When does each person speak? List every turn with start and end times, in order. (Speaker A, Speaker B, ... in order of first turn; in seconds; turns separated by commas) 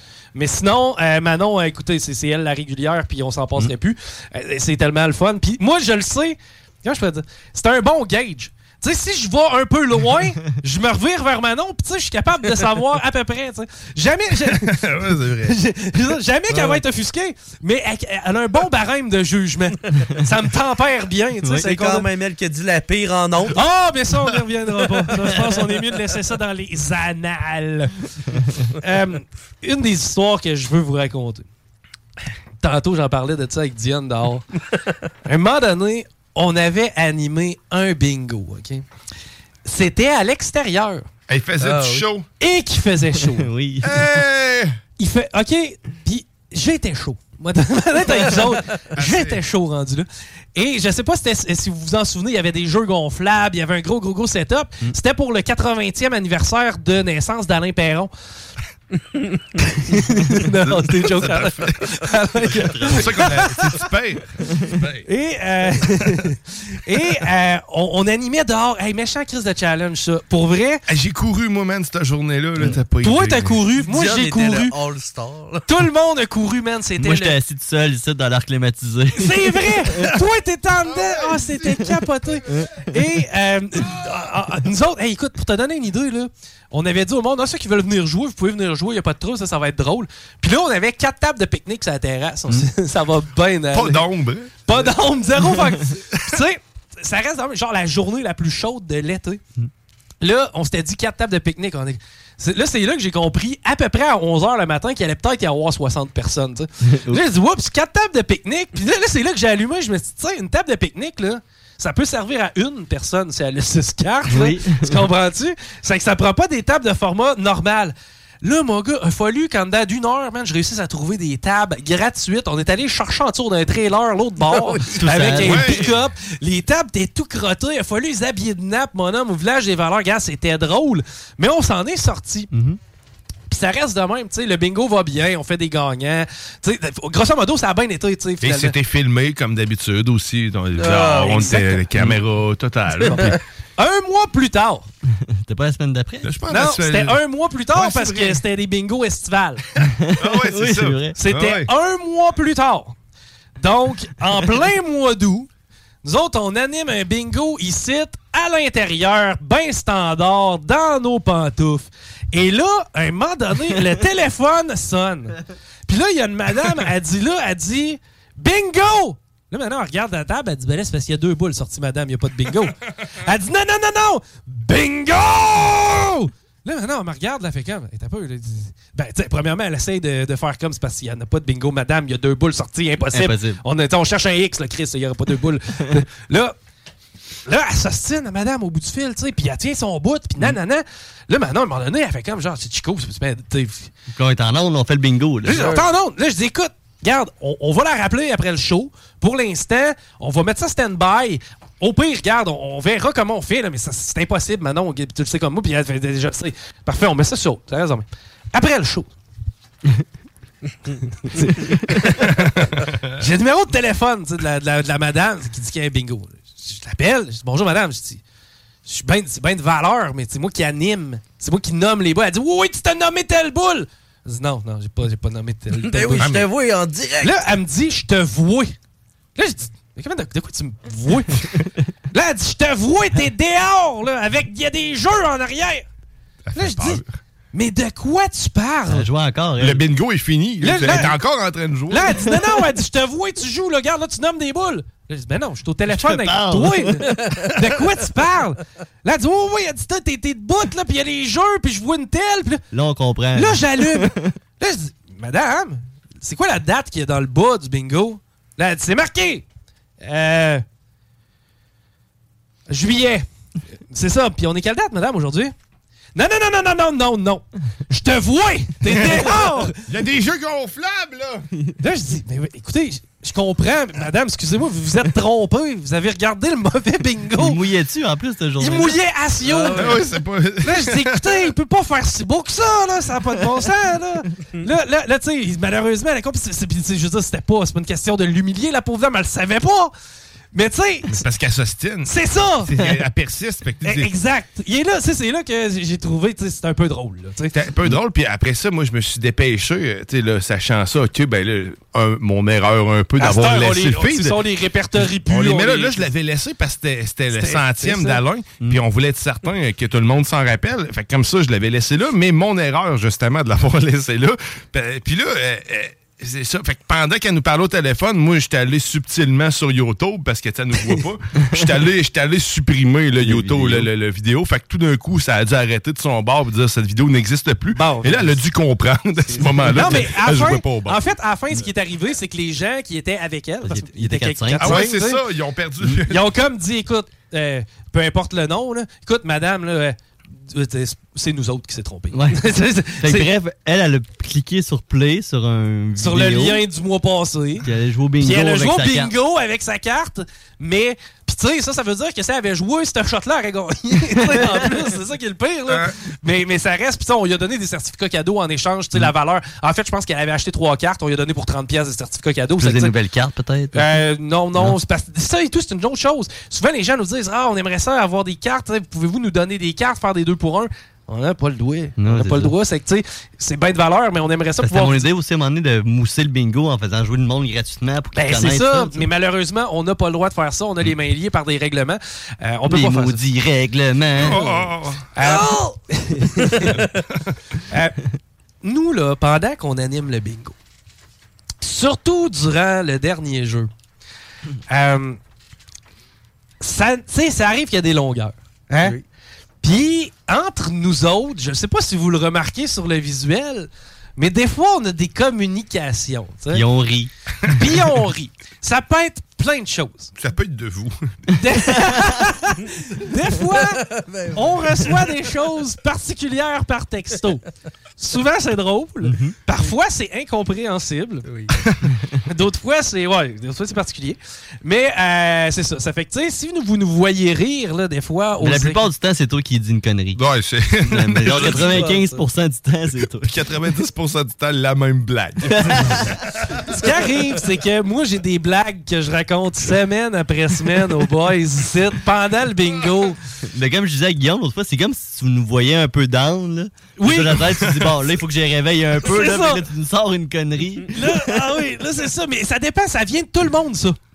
Speaker A: 0.3-14.8, Speaker B: 14.5-15.6, Speaker A: 15.5-22.1, Speaker C: 16.5-16.8, Speaker D: 21.4-21.7, Speaker C: 21.7-23.6, Speaker A: 23.5-27.9, Speaker A: 28.7-31.4, Speaker A: 32.6-34.5, Speaker A: 35.2-38.8, Speaker A: 39.6-41.1, Speaker B: 41.3-42.2, Speaker C: 41.6-42.1, Speaker A: 42.4-43.5, Speaker D: 43.2-44.2, Speaker B: 43.8-44.8, Speaker A: 45.0-58.1, Speaker B: 49.0-49.4, Speaker A: 59.6-63.8, Speaker B: 60.7-61.8, Speaker D: 62.5-63.3, Speaker B: 62.9-65.0, Speaker A: 65.1-70.8, Speaker B: 70.9-73.6, Speaker A: 73.0-74.7, Speaker C: 73.8-75.6, Speaker A: 75.7-77.4, Speaker D: 77.0-80.1, Speaker A: 79.1-94.1, Speaker D: 82.5-82.7, Speaker B: 93.7-94.7, Speaker A: 94.7-99.4, Speaker A: 100.2-132.5, Speaker D: 106.8-107.2, Speaker D: 114.3-115.1, Speaker C: 124.5-124.9, Speaker D: 124.9-125.8, Speaker B: 125.4-126.1, Speaker D: 132.5-132.8, Speaker A: 133.5-138.7, Speaker B: 138.4-143.3, Speaker C: 140.8-141.8, Speaker C: 143.1-143.4, Speaker A: 143.1-144.9, Speaker D: 145.1-146.3, Speaker B: 146.2-148.4, Speaker A: 146.5-149.6, Speaker D: 150.0-151.2, Speaker B: 150.2-151.7, Speaker A: 151.2-152.9, Speaker A: 153.6-155.5, Speaker A: 156.0-186.5, Speaker D: 183.1-183.6, Speaker A: 187.4-193.9, Speaker D: 194.1-195.8, Speaker A: 195.4-209.1, Speaker C: 195.5-195.8, Speaker A: 211.3-212.3, Speaker B: 212.4-213.1, Speaker A: 213.2-218.2, Speaker A: 218.8-226.3, Speaker C: 225.8-227.4, Speaker B: 226.2-226.5, Speaker A: 227.2-228.8, Speaker A: 229.3-231.5, Speaker A: 232.1-235.9, Speaker B: 236.5-237.1, Speaker A: 236.5-237.0, Speaker A: 237.5-239.1, Speaker D: 238.9-239.8, Speaker B: 239.6-242.3, Speaker A: 240.6-241.2, Speaker A: 241.9-252.6, Speaker D: 245.9-246.9, Speaker C: 247.2-247.5, Speaker D: 252.7-254.3, Speaker A: 253.3-259.4, Speaker A: 260.0-260.6, Speaker A: 262.7-263.2, Speaker A: 263.9-265.5, Speaker A: 266.1-269.7, Speaker B: 268.9-271.4, Speaker A: 271.8-277.6, Speaker D: 277.4-279.0, Speaker A: 278.6-280.0, Speaker C: 279.4-280.1, Speaker B: 279.7-281.4, Speaker A: 280.6-289.9, Speaker A: 290.5-291.2, Speaker B: 291.1-294.1, Speaker A: 292.1-292.7, Speaker A: 293.8-297.6, Speaker B: 297.5-304.4, Speaker A: 303.2-306.1, Speaker B: 305.2-331.0, Speaker A: 307.3-308.2, Speaker D: 323.2-323.9, Speaker A: 327.8-328.4, Speaker A: 329.6-335.2, Speaker D: 333.6-334.9, Speaker B: 334.6-336.3, Speaker A: 336.1-343.3, Speaker D: 342.1-346.6, Speaker A: 346.0-347.7, Speaker D: 347.6-349.1, Speaker A: 348.2-362.9, Speaker D: 354.3-354.7, Speaker D: 362.6-363.9, Speaker A: 363.7-375.1, Speaker D: 372.0-372.5, Speaker D: 374.6-379.1, Speaker A: 378.1-383.2, Speaker D: 382.6-384.7, Speaker B: 384.2-385.1, Speaker A: 385.1-386.7, Speaker A: 387.7-388.0, Speaker A: 388.6-390.6, Speaker A: 391.6-393.7, Speaker A: 394.7-395.2, Speaker A: 396.6-399.0, Speaker A: 399.6-406.6, Speaker D: 406.5-407.1, Speaker A: 407.5-410.1, Speaker B: 410.2-411.0, Speaker A: 411.4-417.4, Speaker C: 413.5-415.1, Speaker A: 418.0-421.2, Speaker D: 419.0-419.4, Speaker C: 421.2-421.5, Speaker A: 422.3-428.9, Speaker D: 428.4-430.2, Speaker B: 430.1-431.8, Speaker D: 430.8-433.3, Speaker C: 431.5-432.2, Speaker B: 433.2-436.1, Speaker D: 435.5-436.1, Speaker A: 436.6-443.2, Speaker D: 443.5-451.5, Speaker A: 447.0-447.4, Speaker A: 449.0-449.6, Speaker A: 450.9-454.0